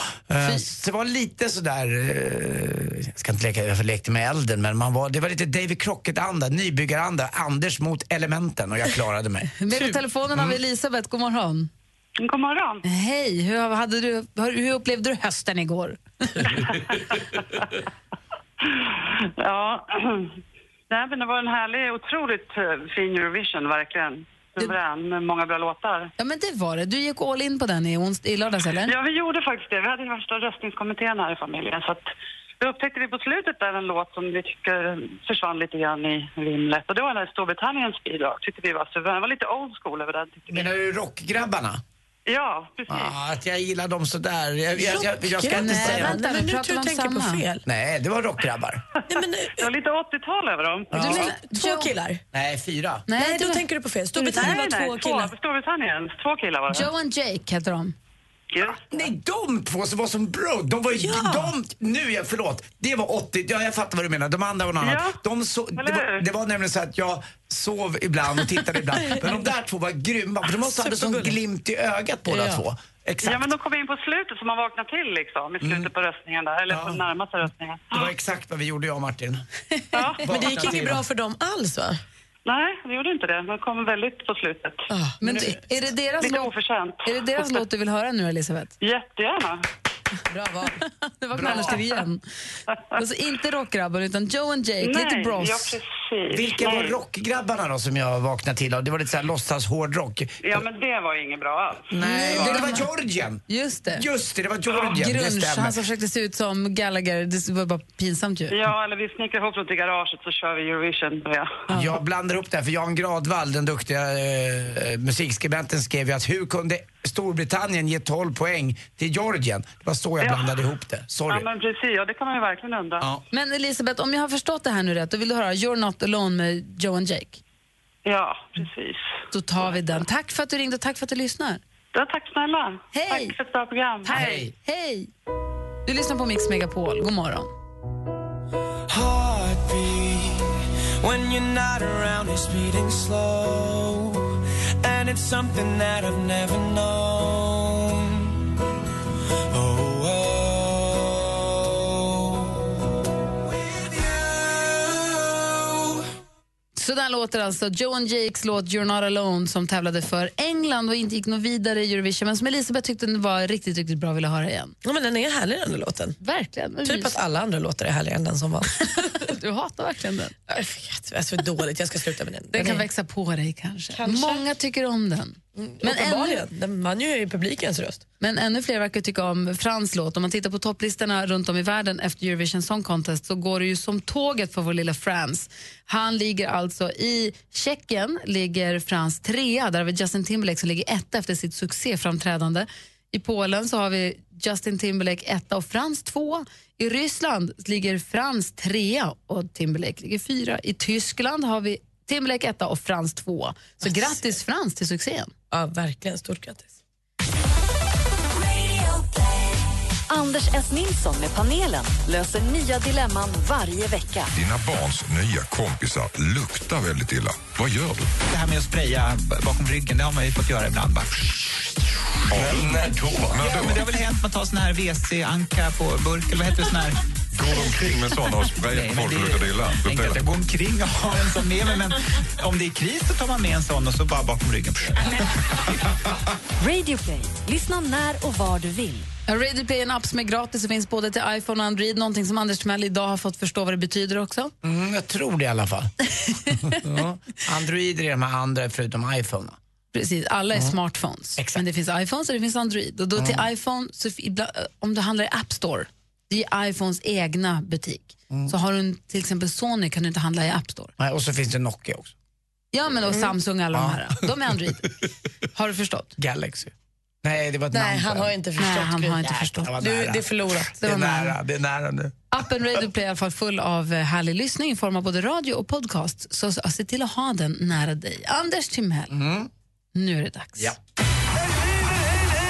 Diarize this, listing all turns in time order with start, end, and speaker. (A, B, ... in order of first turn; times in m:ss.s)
0:00.3-0:09.6 A
0:09.6-0:11.7 B
0:12.2-0:12.8 C
0:12.8-0:16.5 B
0:16.5-0:17.7 C
0:18.6-0:20.3 C
0:20.9-0:26.1 C
0:26.2-0:28.9 B
0:28.8-0:32.0 C
0:32.6-0:40.7 C
0:40.5-0:41.8 A
0:42.3-0:43.1 C
0:42.9-0:46.2 A
0:44.8-0:47.6 D
0:45.5-0:47.4 B
0:47.6-0:48.8 A
0:49.1-0:49.7 D
0:49.1-0:51.2 C
0:50.9-0:51.9 B
0:50.9-0:52.2 D
0:51.0-0:51.2 A
0:52.3-0:53.1 A
0:53.1-0:53.6 B
0:53.1-0:55.3 D
0:54.1-0:56.9 C
0:56.7-0:57.9 B
0:58.5-0:59.0 C
0:58.9-1:13.5 A
1:01.0-1:01.5 D
1:04.8-1:05.2 C
1:05.8-1:06.2 C
1:10.5-1:11.4 D
1:12.3-1:12.6 D
1:13.2-1:18.1 C
1:15.6-1:15.9 A
1:16.7-1:17.0 A
1:17.9-1:19.4 A
1:19.9-1:20.3 C
1:20.2-1:21.0 A
1:20.2-1:22.0 D
1:22.4-1:24.8 C
1:24.9-1:25.4 D
1:25.2-1:26.5 B
1:26.2-1:27.6 C
1:27.0-1:28.7 B
1:28.8-1:29.6 C
1:30.3-1:30.8 D
1:31.2-1:32.2 B
1:31.3-1:31.8 A
1:31.5-1:31.8 C
1:33.0-1:35.8 B
1:34.8-1:37.0 C
1:36.3-1:40.6 A
1:40.4-1:41.9 C
1:41.9-1:45.8 A
1:42.0-1:42.9 B
1:43.5-1:44.0 B
1:44.8-1:48.6 B
1:48.5-1:51.6 C
1:51.7-1:51.9 B
1:51.7-2:01.4 A
2:00.2-2:00.6 C
2:01.3-2:03.1 C
2:03.3-2:07.4 B
2:08.0-2:09.0 C
2:09.3-2:11.6 B
2:11.9-2:14.1 C
2:12.9-2:13.3 B
2:14.0-2:15.1 B
2:14.1-2:14.5 A
2:15.8-2:17.5 B
2:18.9-2:20.4 E
2:21.0-2:24.2 E
2:24.8-2:28.3 E
2:29.5-2:32.6 E
2:33.8-2:36.0 E
2:36.7-2:44.7 B
2:44.8-2:46.2 D
2:46.2-2:47.1 B
2:46.8-2:49.2 D
2:49.2-2:50.4 B
2:50.5-2:52.8 D
2:52.5-2:56.4 B
2:53.9-2:54.4 D
2:55.6-2:58.0 D
2:58.2-3:25.3 B
3:23.8-3:24.2 D
3:25.5-3:26.7 D
3:28.5-3:29.2 F
3:30.1-3:34.3 F
3:34.4-3:38.1 G
3:38.3-3:41.3 H
3:42.3-3:43.8 G
3:42.4-3:47.0 H
3:47.4-3:50.2 G
3:48.7-3:55.0 H
3:56.6-3:59.1 F
3:59.3-4:04.5 B
4:04.6-4:05.9 A
4:06.3-4:06.5 B
4:06.5-4:09.6 A
4:09.9-4:20.9 B
4:11.4-4:11.6 A
4:13.2-4:13.4 A
4:21.0-4:22.1 A
4:22.7-4:24.8 B
4:23.7-4:24.1 A
4:25.5-4:26.1 B
4:26.2-4:26.7 A
4:27.2-4:28.4 A
4:27.7-4:29.2 D
4:28.6-4:29.7 B
4:29.2-4:32.2 A
4:29.8-4:30.8 D
4:30.8-4:31.3 B
4:32.3-4:39.1 B
4:39.1-4:39.5 A
4:39.9-4:40.7 B